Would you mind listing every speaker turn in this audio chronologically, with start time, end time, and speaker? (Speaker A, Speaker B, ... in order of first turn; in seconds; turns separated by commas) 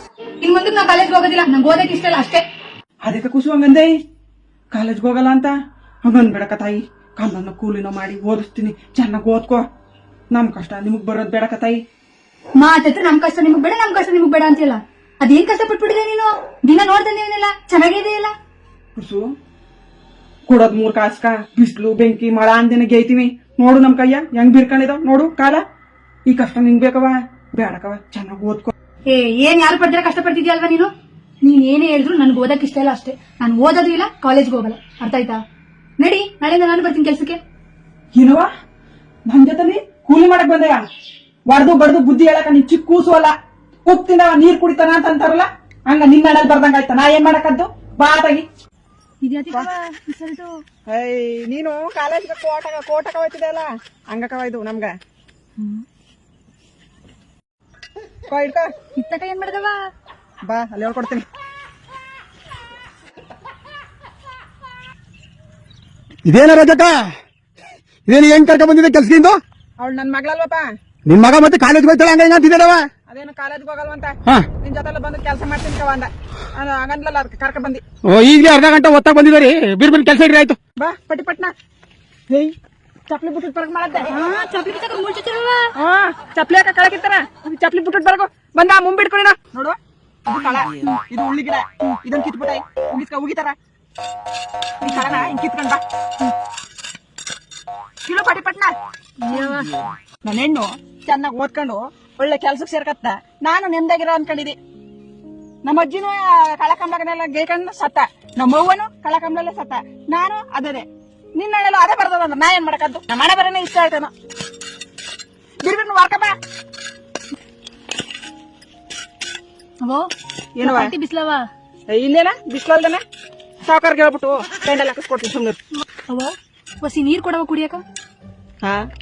Speaker A: 0.4-2.5, Speaker B: 3.0-3.9, Speaker B: 4.7-5.5, Speaker B: 6.0-9.6, Speaker B: 10.3-11.8, Speaker A: 12.6-18.3, Speaker B: 19.0-19.3, Speaker B: 20.5-25.6, Speaker B: 26.3-28.7, Speaker A: 29.1-30.9, Speaker A: 31.4-35.4, Speaker A: 36.0-37.4, Speaker B: 38.1-38.5, Speaker B: 39.3-40.8, Speaker B: 41.5-43.3, Speaker B: 43.9-48.5, Speaker A: 49.2-50.5, Speaker B: 50.9-55.0, Speaker A: 55.6-55.8, Speaker B: 58.3-58.7, Speaker A: 59.0-59.8, Speaker B: 60.4-61.2, Speaker C: 66.3-67.1, Speaker C: 68.1-69.4, Speaker B: 69.8-70.7, Speaker C: 71.1-72.9, Speaker B: 73.1-77.8, Speaker C: 78.0-80.6, Speaker B: 80.8-81.5, Speaker B: 82.3-82.6, Speaker B: 83.1-84.1, Speaker A: 84.1-85.7, Speaker B: 85.8-93.5, Speaker B: 94.8-95.8, Speaker B: 98.0-98.7, Speaker A: 99.2-99.7, Speaker B: 100.2-104.6, Speaker B: 105.6-114.1, Speaker B: 115.6-116.3, Speaker A: 119.8-120.1, Speaker B: 120.6-120.9, Speaker A: 120.6-121.4, Speaker B: 121.9-123.0, Speaker B: 123.6-125.6, Speaker A: 126.1-127.8, Speaker B: 128.6-128.9